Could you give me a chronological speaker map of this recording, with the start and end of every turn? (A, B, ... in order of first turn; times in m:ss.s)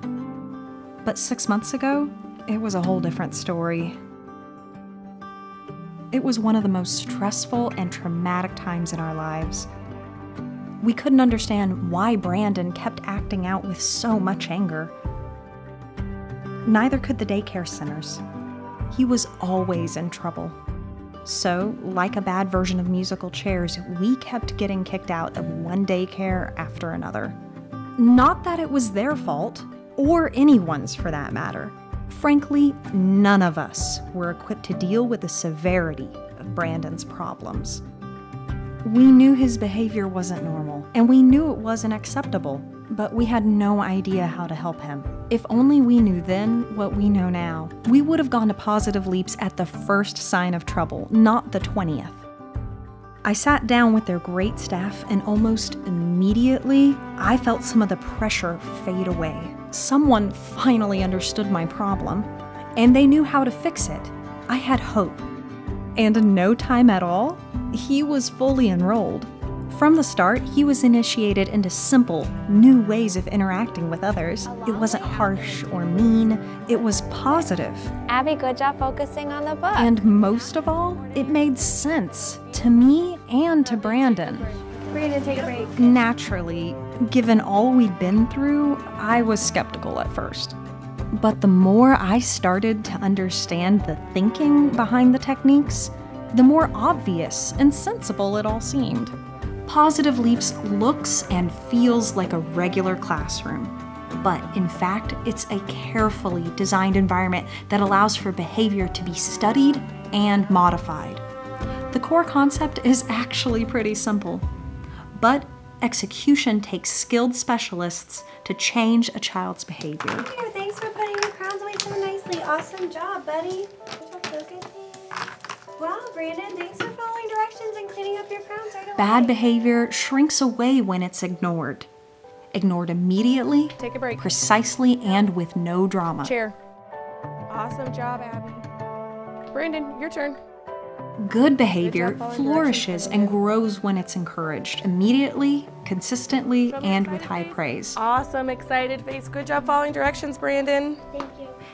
0:01.0-0:04.0 A
0:06.1-0:09.7 A
0:10.8-0:14.9 A
0:16.6-0:18.2 A
0:18.9-0:20.6 A
0:21.2-0:27.4 A
0:28.0-0:37.8 A
0:38.8-0:52.2 A
0:53.2-1:05.2 A
1:06.0-1:17.9 A
1:14.6-1:15.9 B
1:18.1-1:19.9 C
1:19.7-1:24.6 A
1:20.0-1:22.8 B
1:23.6-1:26.0 B
1:24.9-1:25.7 C
1:25.4-1:30.6 A
1:31.1-1:39.1 A
1:39.7-1:51.2 A
1:51.9-1:54.4 A
1:55.2-2:00.3 A
2:00.4-2:04.6 C
2:05.8-2:09.1 C
2:08.9-2:11.9 A
2:12.5-2:16.4 A
2:13.8-2:14.2 B
2:16.2-2:16.6 B
2:17.5-2:18.6 B
2:19.5-2:20.4 B
2:21.2-2:28.0 A
2:21.8-2:23.4 B
2:26.7-2:31.0 B
2:31.2-2:31.5 C